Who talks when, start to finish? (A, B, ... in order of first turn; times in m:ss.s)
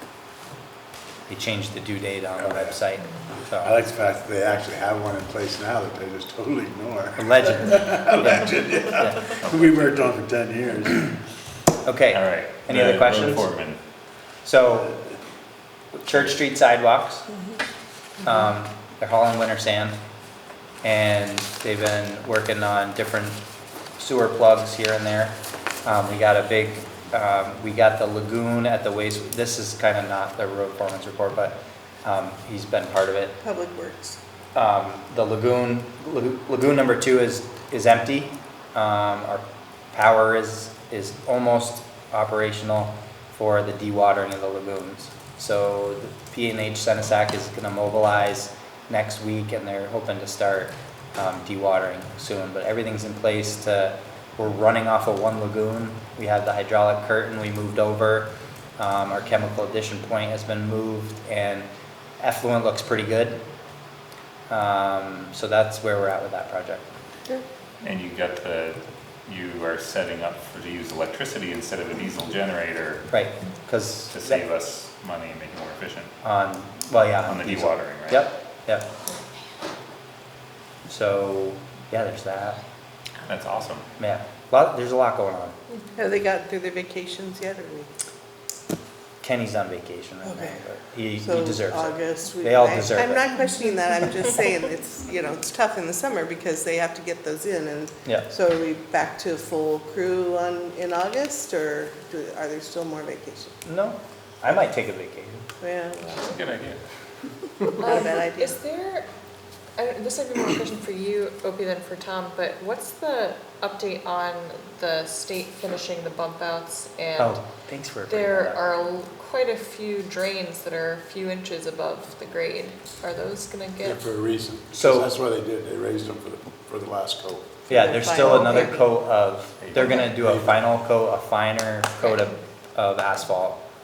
0:01.3-0:03.8 A
0:02.4-0:02.8 B
0:03.6-0:11.2 B
0:07.2-0:09.2 A
0:09.4-0:09.8 C
0:11.8-0:13.5 A
0:12.1-0:13.8 C
0:14.4-0:14.9 A
0:15.9-0:17.2 A
0:18.2-0:20.0 A
0:20.8-0:23.4 A
0:24.0-0:33.3 A
0:33.4-0:34.2 D
0:34.5-1:01.7 A
1:02.2-1:03.4 A
1:04.5-1:06.8 A
1:07.8-1:13.0 C
1:13.1-1:14.4 A
1:14.1-1:16.1 C
1:16.2-1:18.9 A
1:17.3-1:18.3 C
1:20.9-1:22.6 A
1:23.2-1:23.8 C
1:24.0-1:25.6 A
1:26.0-1:27.9 D
1:29.2-1:33.3 A
1:30.2-1:30.6 D
1:31.2-1:43.5 D
1:43.6-1:45.5 A
1:45.6-1:46.3 D
1:46.2-1:46.8 C
1:47.8-1:49.0 E
1:47.8-1:48.6 D
1:49.8-1:57.4 E
1:57.2-1:58.7 A
1:58.1-2:04.1 E
2:03.8-2:07.5 B
2:04.7-2:05.1 A
2:07.7-2:13.6 A
2:07.7-2:08.8 D
2:09.6-2:10.0 C
2:10.0-2:10.5 B